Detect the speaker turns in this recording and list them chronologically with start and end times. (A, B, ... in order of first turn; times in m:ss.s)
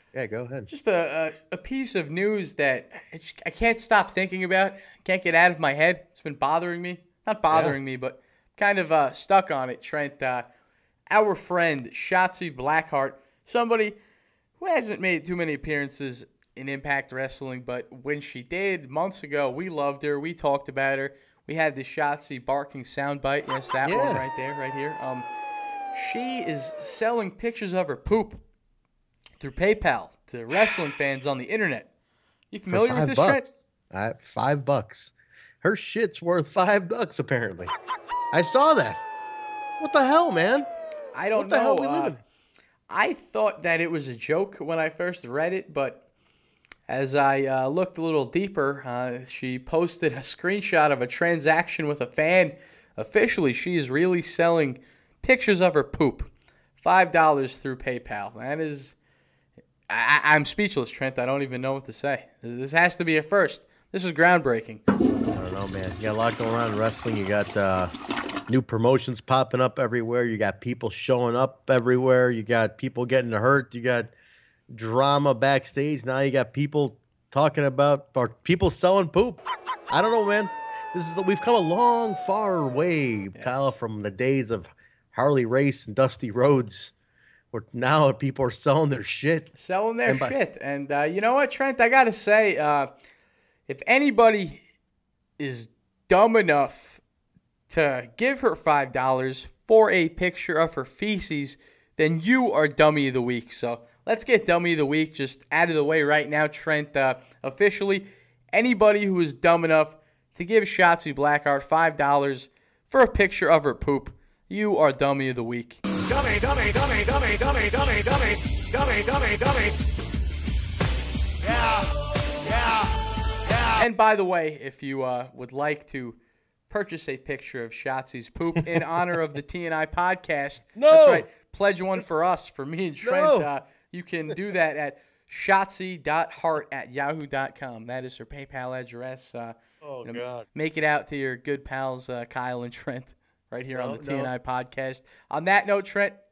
0:00.1-0:00.7 A
0:00.7-0:10.5 B
0:07.5-0:07.8 A
0:11.1-0:14.0 B
0:14.6-0:25.3 B
0:23.8-0:24.2 A
0:25.9-0:28.4 B
0:29.4-0:31.9 B
0:32.5-0:33.4 B
0:32.7-0:37.7 A
0:38.3-0:39.0 A
0:39.8-0:40.7 A
0:41.1-0:42.2 B
0:41.3-0:42.2 A
0:42.9-0:46.0 B
0:46.9-0:58.9 B
0:59.9-1:04.8 B
1:05.3-1:07.9 A
1:08.5-1:14.1 A
1:14.7-1:26.9 A
1:23.3-1:23.7 B
1:27.5-1:29.5 A
1:29.5-1:32.9 B
1:30.0-1:30.4 A
1:33.7-1:34.6 B
1:35.4-1:37.0 B
1:37.7-1:55.8 B
1:56.0-1:59.8 C
2:01.4-2:01.9 C
2:02.4-2:02.9 C
2:03.5-2:03.8 C
2:03.7-2:06.2 B
2:06.7-2:26.2 B
2:10.8-2:11.3 A
2:13.0-2:13.5 A
2:19.8-2:20.4 A
2:23.7-2:24.3 A